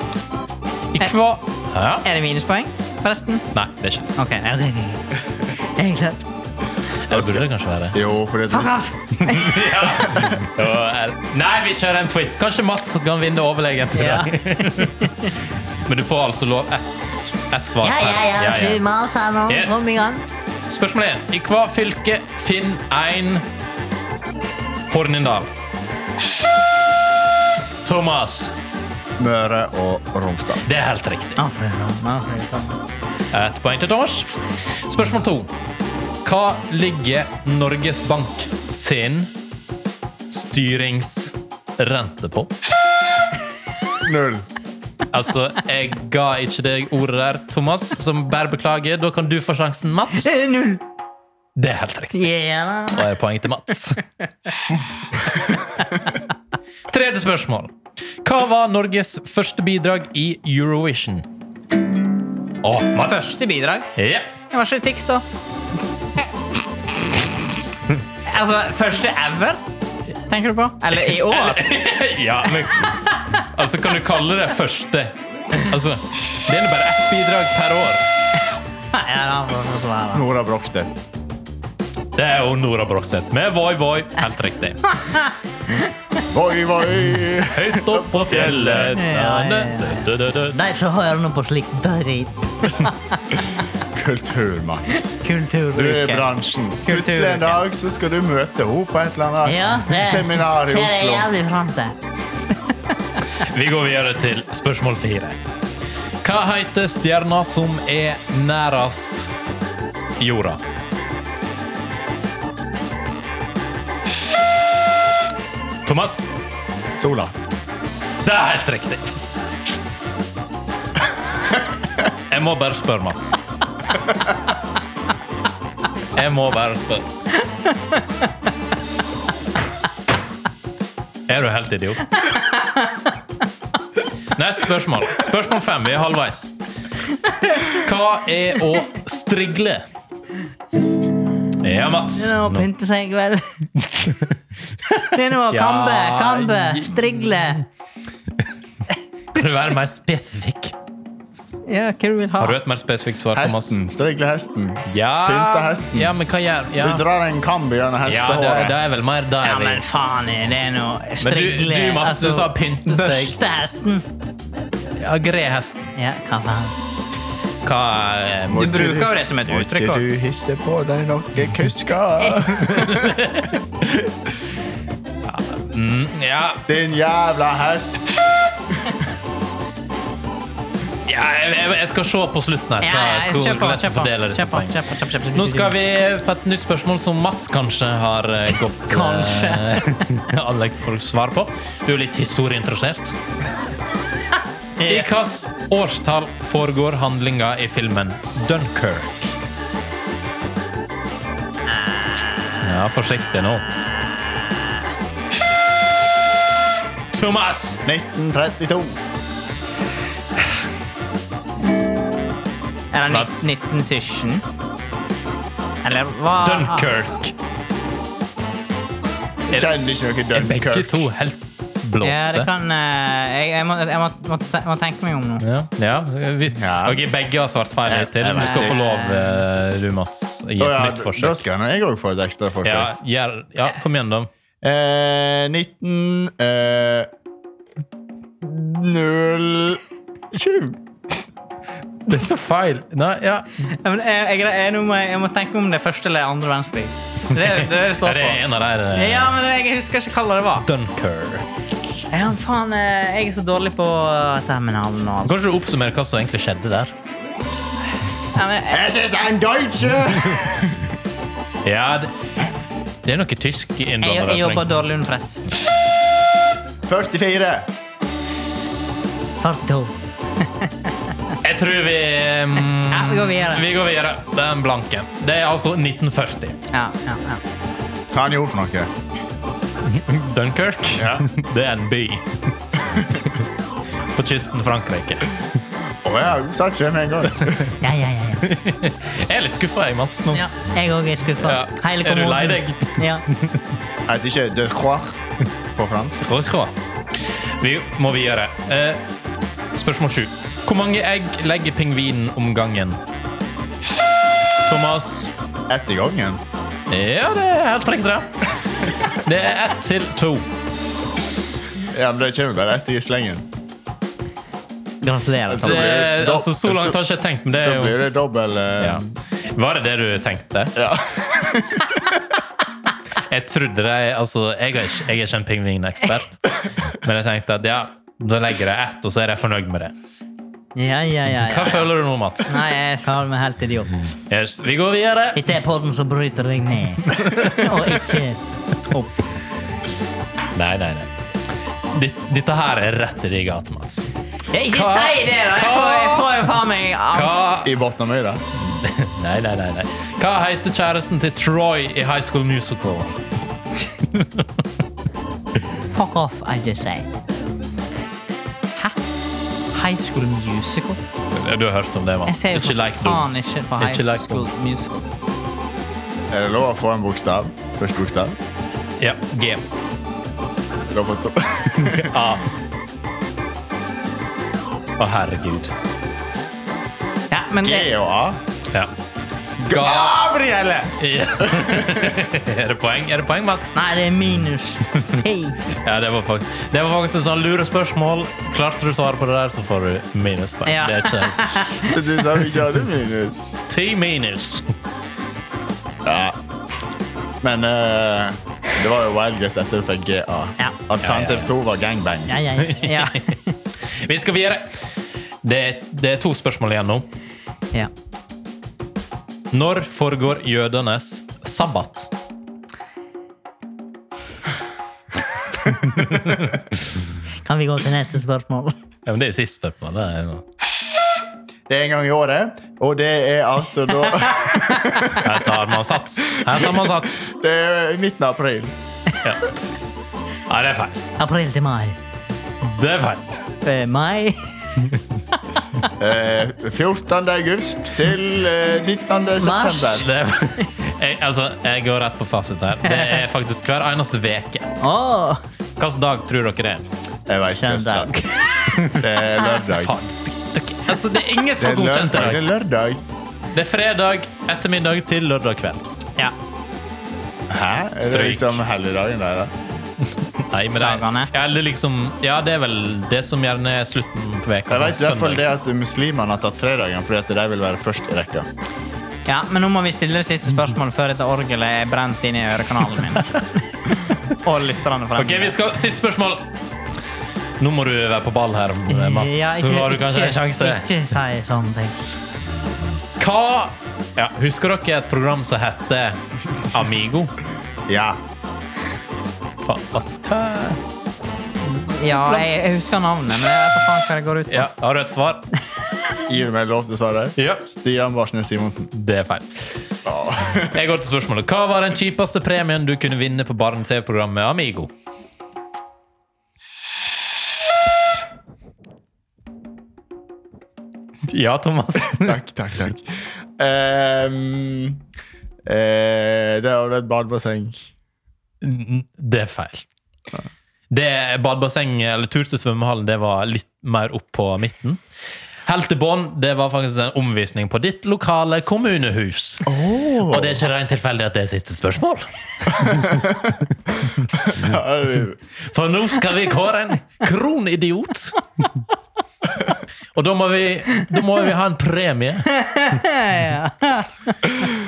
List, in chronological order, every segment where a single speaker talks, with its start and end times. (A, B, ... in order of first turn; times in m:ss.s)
0:00.9-0:02.0 A
0:02.0-0:03.4 B
0:03.5-0:04.1 A
0:04.1-0:06.2 B
0:07.0-0:08.0 A
0:07.1-0:08.7 C
0:08.5-0:10.4 B
0:09.2-0:15.3 A
0:13.9-0:15.3 B
0:15.8-0:18.8 A
0:17.8-0:20.2 B
0:19.5-0:19.8 A
0:20.7-0:23.4 A
0:24.9-0:25.5 A
0:27.8-0:28.5 A
0:29.2-0:30.6 C
0:30.6-0:31.4 A
0:31.4-0:32.8 B
0:33.3-0:35.5 A
0:36.2-0:39.3 A
0:40.3-0:42.5 A
0:44.0-0:44.4 C
0:45.1-0:50.3 A
0:50.2-0:50.8 B
0:51.6-0:52.2 A
0:52.1-0:53.1 B
0:52.9-0:54.0 A
0:55.3-0:56.2 B
0:56.9-1:01.3 A
1:02.6-1:03.3 A
1:03.0-1:03.9 B
1:04.0-1:04.3 A
1:04.5-1:05.2 B
1:08.2-1:09.6 B
1:10.3-1:11.7 B
1:11.0-1:18.0 A
1:12.9-1:13.2 B
1:18.9-1:20.2 B
1:20.1-1:20.9 C
1:22.1-1:24.9 A
1:24.9-1:26.2 B
1:26.3-1:29.0 C
1:27.5-1:30.6 A
1:28.9-1:33.6 B
1:33.8-1:35.1 C
1:34.9-1:37.6 B
1:35.7-1:41.3 C
1:39.4-1:41.9 B
1:43.3-1:45.4 A
1:46.2-1:49.3 A
1:50.2-1:50.6 A
1:55.8-1:56.3 A
1:57.0-1:57.3 C
1:58.2-1:59.2 A
2:02.3-2:03.4 A
2:06.1-2:07.1 A
2:07.7-2:08.2 B
2:11.3-2:12.2 A
2:12.2-2:13.1 B
2:14.3-2:16.5 A
2:17.1-2:17.8 B
2:17.7-2:19.8 A
2:21.6-2:22.6 A
2:22.2-2:23.6 B
2:23.8-2:27.6 A
2:25.1-2:27.6 B
2:29.3-2:30.7 A
2:31.7-2:32.6 B
2:32.4-2:33.8 A
2:33.3-2:36.2 C
2:34.9-2:37.0 A
2:36.8-2:38.8 C
2:38.0-2:39.8 A
2:39.4-2:44.0 B
2:41.2-2:43.3 A
2:44.9-2:45.9 A
2:45.9-2:46.7 B
2:47.6-2:48.7 A
2:48.5-2:53.3 C
2:48.5-2:50.0 B
2:52.6-2:54.1 A
2:55.2-2:56.6 A
2:56.7-2:58.2 C
3:01.0-3:04.7 A
3:02.8-3:05.7 B
3:05.3-3:13.2 A
3:08.8-3:10.0 B
3:14.8-3:15.1 B
3:14.8-3:19.3 A
3:22.6-3:23.6 A
3:27.1-3:27.8 A
3:27.8-3:29.0 C
3:32.9-3:34.4 B
3:33.1-3:33.4 A
3:35.8-3:36.9 B
3:36.4-3:37.3 A
3:39.5-3:41.0 C
3:40.3-3:42.5 A
3:42.0-3:45.4 B
3:45.4-3:51.4 A
3:46.6-3:47.0 C
3:47.8-3:48.8 C
3:48.4-3:49.4 B
3:50.6-3:52.9 C
3:52.6-3:54.3 A
3:54.6-3:57.1 C
3:58.4-4:00.8 C
4:02.0-4:03.7 A
4:03.7-4:10.7 B
4:07.3-4:09.4 A
4:10.6-4:11.4 A
4:12.1-4:15.3 B
4:15.2-4:16.9 A
4:18.3-4:18.8 B
4:18.7-4:20.9 C
4:21.6-4:22.2 A
4:23.0-4:24.7 A
4:24.0-4:25.4 B
4:26.9-4:27.7 C
4:29.4-4:31.3 B
4:31.4-4:36.6 A
4:32.9-4:33.7 B
4:36.7-4:37.4 B
4:38.1-4:38.9 C
4:39.8-4:42.5 A
4:41.0-4:41.3 C
4:42.9-4:43.2 C
4:44.2-4:45.4 A
4:46.0-4:47.7 C
4:47.8-4:48.4 B
4:48.4-4:50.4 A
4:50.3-4:53.2 B
4:51.4-4:53.6 A
4:54.1-4:55.2 C
4:55.7-4:56.3 C
4:56.2-4:59.0 A
4:59.7-5:03.0 A
5:04.6-5:05.3 A
5:05.7-5:06.4 C
5:06.9-5:10.5 A
5:11.8-5:13.4 C
5:15.0-5:16.1 B
5:15.5-5:17.0 C
5:15.6-5:18.0 A
5:17.5-5:19.0 C
5:18.8-5:20.7 A
5:20.8-5:22.3 C
5:23.2-5:29.9 A
5:30.8-5:31.9 B
5:31.4-5:32.6 A
5:32.5-5:34.1 B
5:34.3-5:35.4 A
5:35.3-5:39.2 B
5:37.1-5:38.2 A
5:40.5-5:41.1 A
5:41.9-5:44.1 A
5:44.5-5:47.5 B
5:44.7-5:46.4 A
5:47.1-5:47.8 A
5:47.6-5:48.4 C
5:48.6-5:53.1 A
5:54.1-5:54.4 A
5:55.8-5:57.1 B
5:59.7-6:01.0 B
6:01.3-6:04.5 A
6:02.3-6:05.0 B
6:06.3-6:08.4 C
6:09.0-6:09.6 A
6:10.9-6:12.2 C
6:11.8-6:12.5 A
6:15.0-6:15.7 A
6:17.3-6:17.9 B
6:17.6-6:18.4 C
6:19.6-6:20.3 A
6:19.7-6:22.1 C
6:20.9-6:23.7 A
6:23.7-6:25.6 B
6:25.8-6:31.7 A
6:30.6-6:32.0 B
6:31.8-6:33.6 C
6:33.7-6:34.7 A
6:36.0-6:36.4 C
6:37.4-6:42.4 C
6:41.0-6:41.5 A
6:42.3-6:43.6 B
6:42.6-6:44.9 A
6:45.4-6:47.1 A
6:49.5-6:52.1 A
6:55.8-6:56.7 A
6:57.4-6:58.7 B
6:59.0-7:00.4 A
7:01.7-7:05.3 C
7:04.5-7:05.2 B
7:05.2-7:07.3 A
7:06.5-7:08.8 C
7:09.2-7:09.5 A
7:10.5-7:11.0 A
7:11.2-7:12.0 B
7:12.6-7:13.2 A
7:13.6-7:14.5 B
7:15.6-7:15.8 B
7:16.0-7:20.1 C
7:19.4-7:20.0 B
7:19.9-7:24.7 A
7:22.8-7:23.2 B
7:24.8-7:25.4 B
7:25.8-7:26.8 A
7:27.3-7:28.1 C
7:27.5-7:28.7 B
7:28.7-7:32.5 A
7:28.9-7:29.9 C
7:31.6-7:33.0 C
7:33.5-7:35.9 A
7:37.5-7:39.5 C
7:38.0-7:38.6 A
7:40.2-7:45.4 A
7:40.8-7:41.3 B
7:44.7-7:48.5 C
7:49.2-7:53.3 B
7:53.0-7:53.4 A
7:53.8-7:55.6 B
7:55.2-7:56.4 A
7:57.6-8:00.9 A
7:58.9-8:01.9 B
8:03.2-8:06.2 A
8:06.7-8:07.3 A
8:07.9-8:08.2 C
8:09.6-8:10.8 A
8:11.6-8:14.7 B
8:14.5-8:15.4 A
8:16.3-8:18.9 C
8:17.4-8:17.6 A
8:18.9-8:19.8 A
8:20.0-8:20.8 C
8:20.7-8:24.9 A
8:31.3-8:32.4 A
8:32.2-8:35.0 C
8:35.6-8:37.9 C
8:38.6-8:39.8 A
8:40.9-8:45.0 A
8:45.6-8:49.7 A
8:49.6-8:50.6 C
8:50.2-8:53.2 A
8:52.9-8:53.5 C
8:54.3-8:55.4 C
8:55.6-8:58.4 A
9:00.1-9:02.6 A
9:02.5-9:04.7 B